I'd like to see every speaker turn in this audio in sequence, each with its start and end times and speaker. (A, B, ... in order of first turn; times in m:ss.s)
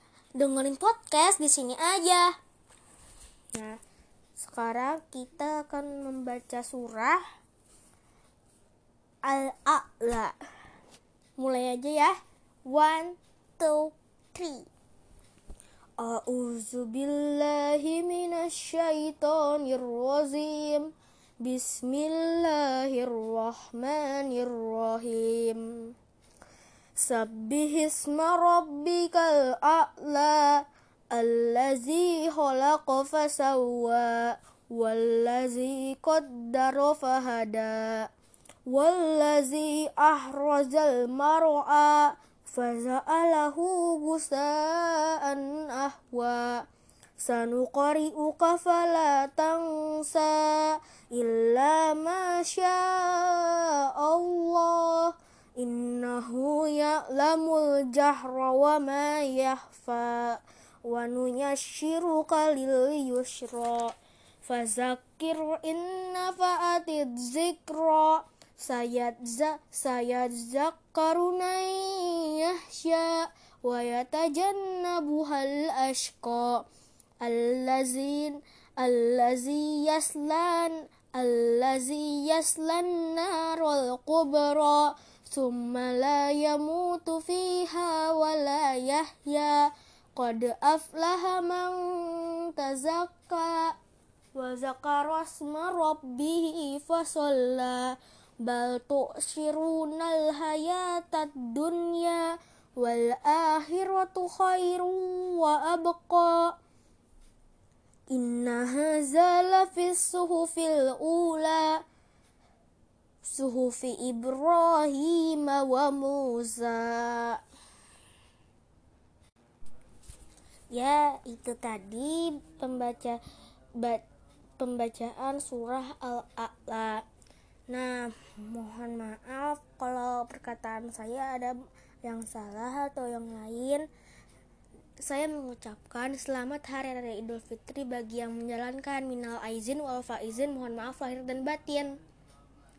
0:00.4-0:02.3 A
0:03.5-0:03.8 A
0:04.4-0:07.2 A
0:09.2-0:10.3 A
0:11.4-0:14.7 A
0:16.0-0:25.9 A
0:27.0-0:38.1 A
0:38.6-0:46.6 A
0:47.2-1:16.6 A
1:17.2-1:33.7 A
1:34.3-1:46.5 A
1:48.1-1:51.8 A
1:53.2-1:57.4 A
2:00.7-2:03.2 A
2:04.6-2:07.0 A
2:07.7-2:13.9 A
2:15.0-2:22.0 A